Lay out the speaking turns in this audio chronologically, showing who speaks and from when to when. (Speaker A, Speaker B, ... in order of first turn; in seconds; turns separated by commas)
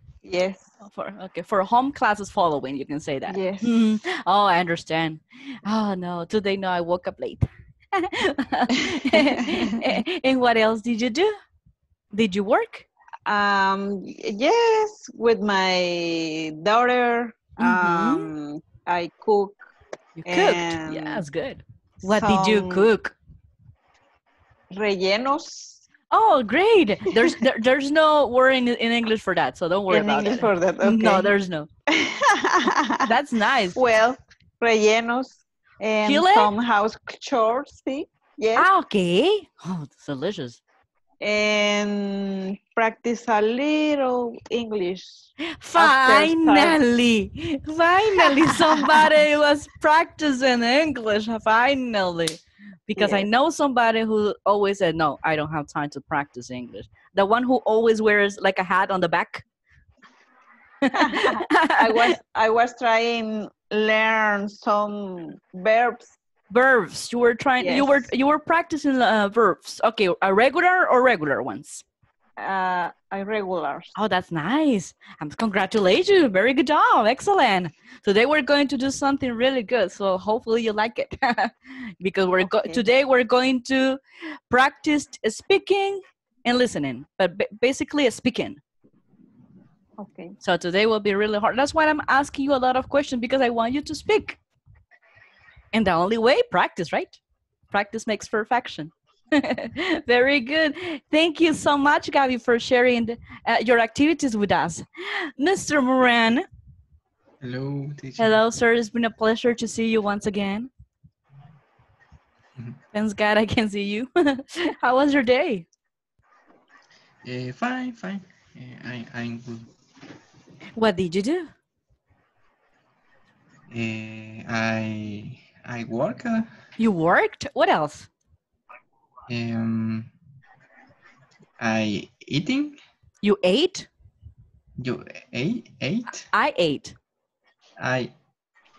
Speaker A: 0.2-0.7, Speaker B: 0.8-11.3, Speaker A: 3.3-3.9, Speaker A: 9.1-9.7, Speaker B: 12.1-12.8, Speaker A: 13.3-19.6, Speaker B: 17.6-18.3, Speaker B: 20.2-23.1, Speaker A: 20.2-21.2, Speaker A: 22.1-22.9, Speaker A: 24.7-25.8, Speaker B: 26.1-31.7, Speaker A: 29.9-31.3, Speaker A: 31.9-33.1, Speaker B: 33.1-33.8, Speaker A: 33.7-38.7, Speaker B: 36.0-36.5, Speaker B: 38.5-40.6, Speaker A: 41.2-46.8, Speaker B: 45.6-59.4, Speaker A: 48.2-49.1, Speaker A: 53.0-53.3, Speaker B: 60.8-62.1, Speaker A: 60.9-66.1, Speaker B: 66.5-71.8, Speaker A: 67.6-68.1, Speaker A: 72.4-73.9, Speaker B: 73.9-84.0, Speaker A: 82.4-82.8, Speaker B: 84.5-88.6, Speaker A: 90.0-90.3, Speaker B: 90.4-94.4, Speaker B: 95.7-97.2, Speaker B: 97.7-106.4, Speaker C: 107.4-108.4, Speaker B: 108.2-110.7, Speaker B: 112.9-115.6, Speaker C: 117.2-119.7, Speaker B: 120.8-121.5, Speaker C: 123.7-126.5, Speaker B: 126.8-128.1, Speaker C: 129.3-130.1, Speaker C: 131.6-132.8, Speaker B: 133.2-133.9, Speaker C: 134.8-136.3, Speaker B: 136.3-136.9, Speaker C: 137.8-138.1